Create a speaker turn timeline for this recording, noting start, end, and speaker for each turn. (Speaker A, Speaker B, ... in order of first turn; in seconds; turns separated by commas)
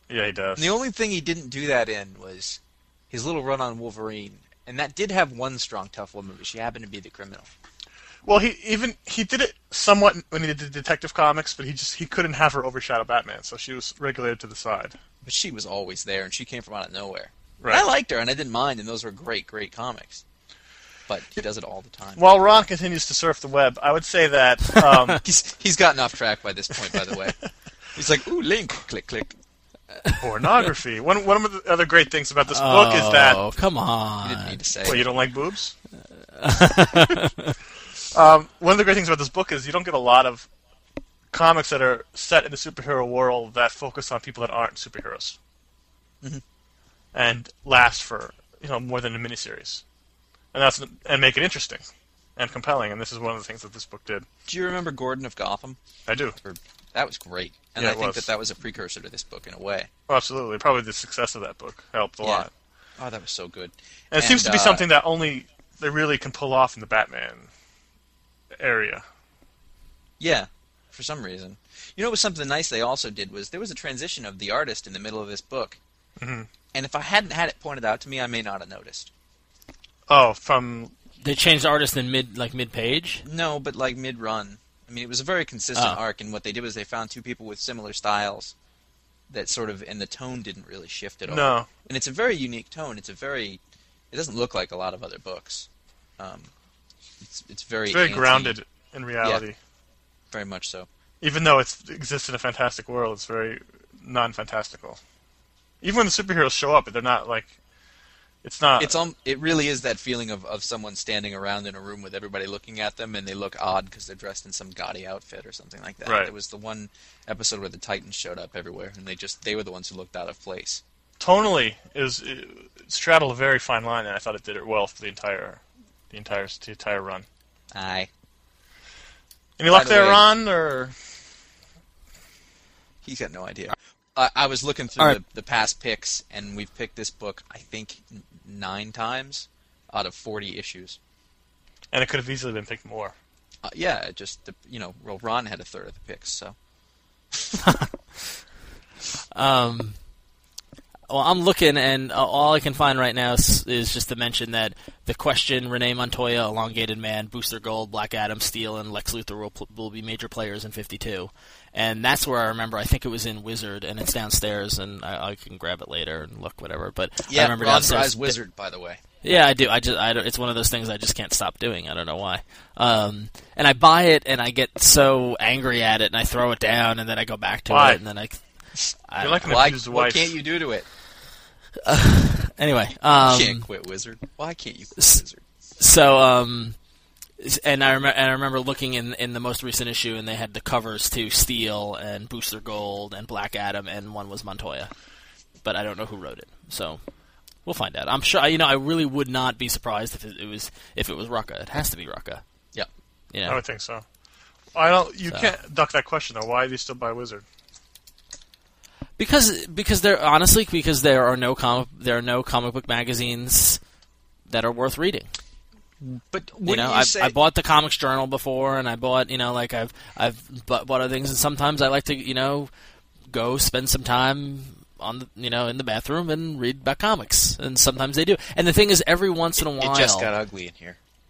Speaker A: 0.1-0.7, Speaker B: 0.6-7.5, Speaker A: 8.2-15.0, Speaker B: 15.2-20.2, Speaker B: 21.1-22.4, Speaker A: 22.2-25.2, Speaker B: 25.2-27.4, Speaker B: 27.9-29.4, Speaker A: 30.2-33.4, Speaker C: 32.5-34.9, Speaker B: 34.2-35.1, Speaker A: 34.8-35.7, Speaker C: 36.4-37.5, Speaker A: 38.1-40.5, Speaker A: 41.3-45.4, Speaker A: 47.1-49.8, Speaker A: 50.5-54.3, Speaker B: 54.5-55.8, Speaker A: 56.1-56.4, Speaker B: 56.4-59.9, Speaker A: 57.8-58.3, Speaker A: 60.1-62.5, Speaker B: 62.2-62.5, Speaker B: 63.0-64.8, Speaker A: 64.1-67.5, Speaker A: 68.6-69.0, Speaker B: 70.2-75.8, Speaker A: 76.2-76.5, Speaker B: 76.7-79.1, Speaker A: 80.1-80.9, Speaker C: 81.2-83.2, Speaker B: 83.2-88.5, Speaker C: 85.8-86.0, Speaker B: 89.3-93.6, Speaker A: 91.3-91.7, Speaker B: 94.1-96.5, Speaker B: 97.2-98.6, Speaker A: 97.9-99.6, Speaker B: 100.3-100.9, Speaker A: 101.2-105.0, Speaker A: 105.8-107.5, Speaker A: 108.4-109.0, Speaker B: 108.8-120.8, Speaker A: 116.0-116.3, Speaker A: 121.2-127.3, Speaker B: 127.7-128.1, Speaker A: 129.6-130.9, Speaker B: 129.7-130.3, Speaker B: 133.0-141.0, Speaker A: 141.9-143.2, Speaker B: 143.6-146.6, Speaker C: 149.3-149.9, Speaker C: 151.1-168.3, Speaker B: 167.3-169.0, Speaker C: 169.2-178.4, Speaker A: 177.7-178.0, Speaker C: 179.1-179.7, Speaker A: 179.2-180.3, Speaker B: 179.4-180.9, Speaker C: 181.8-183.7, Speaker B: 183.2-185.4, Speaker C: 185.8-186.8, Speaker C: 187.4-194.9, Speaker C: 195.6-197.0, Speaker C: 197.7-202.4, Speaker C: 203.3-203.6, Speaker A: 203.4-204.0, Speaker A: 204.8-207.4, Speaker C: 209.2-213.8, Speaker C: 214.5-215.3, Speaker B: 216.0-217.4, Speaker C: 216.7-222.7, Speaker C: 223.3-230.3, Speaker B: 229.6-231.0